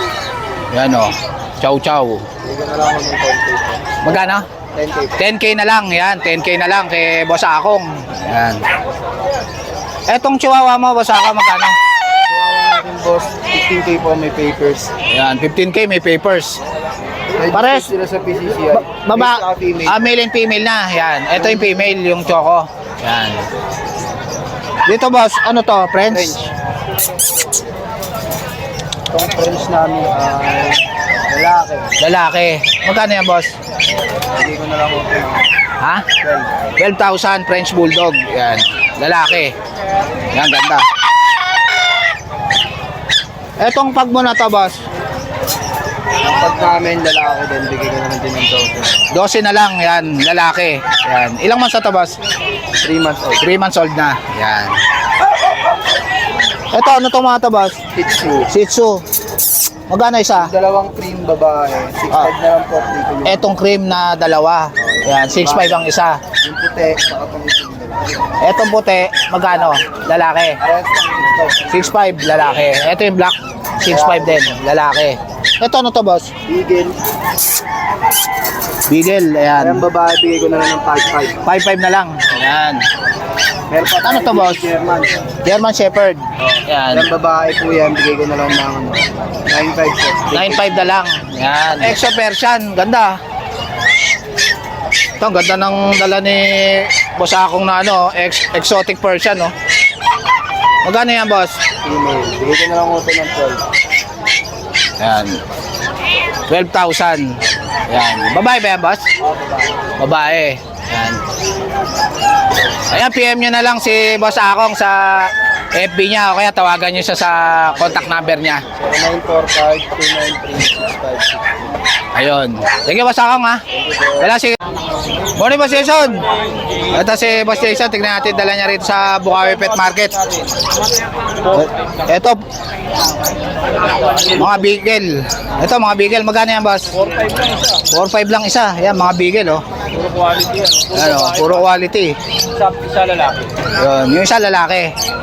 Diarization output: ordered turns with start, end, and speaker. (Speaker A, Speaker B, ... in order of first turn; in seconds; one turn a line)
Speaker A: 0.7-2.2
Speaker B: 2.4-3.8
Speaker A: 4.0-4.5
Speaker B: 4.7-5.2
Speaker A: 5.2-8.6
Speaker A: 10.1-11.8
Speaker B: 12.3-14.9
Speaker A: 15.1-16.6
Speaker B: 17.3-20.0
Speaker A: 17.5-17.9
Speaker A: 18.7-23.5
Speaker B: 21.4-21.7
Speaker A: 24.9-26.4
Speaker B: 26.1-26.5
Speaker B: 29.1-31.9
Speaker A: 32.0-33.5
Speaker B: 34.3-35.5
Speaker A: 35.8-36.1
Speaker B: 36.2-36.6
Speaker A: 36.8-39.5
Speaker A: 40.3-40.9
Speaker A: 43.6-44.8
Speaker B: 46.2-48.9
Speaker A: 49.1-52.2
Speaker B: 52.8-53.4
Speaker A: 53.4-54.8
Speaker A: 56.7-57.8
Speaker B: 58.0-58.5
Speaker A: 58.5-59.0
Speaker A: 59.9-60.5
Speaker B: 60.4-63.5
Speaker A: 63.2-66.2
Speaker B: 64.8-65.8
Speaker B: 66.4-68.2
Speaker A: 68.4-70.6
Speaker B: 70.6-72.1
Speaker A: 71.7-76.3
Speaker B: 73.9-74.5
Speaker B: 76.5-77.0
Speaker A: 78.9-79.9
Speaker B: 79.6-81.4
Speaker A: 81.5-82.8
Speaker B: 83.7-85.2
Speaker A: 84.0-84.6
Speaker A: 85.4-87.1
Speaker B: 86.9-90.8
Speaker A: 90.3-93.2
Speaker A: 95.2-99.5
Speaker A: 100.8-101.6
Speaker B: 101.8-103.6
Speaker A: 105.0-105.4
Speaker A: 106.5-107.3
Speaker A: 107.9-109.0
Speaker B: 109.2-109.5
Speaker A: 110.0-111.2
Speaker A: 112.9-118.7
Speaker B: 118.7-121.8
Speaker A: 122.1-123.6
Speaker B: 123.8-124.3
Speaker A: 124.2-124.6
Speaker A: 125.4-126.3
Speaker C: 126.2-127.8
Speaker A: 126.9-130.2
Speaker C: 129.3-130.5
Speaker C: 131.4-131.9
Speaker A: 131.5-132.4
Speaker C: 133.7-134.7
Speaker A: 134.4-136.9
Speaker C: 136.9-137.8
Speaker A: 137.9-139.6
Speaker C: 139.9-141.7
Speaker A: 140.9-142.2
Speaker C: 142.6-143.5
Speaker A: 143.8-144.9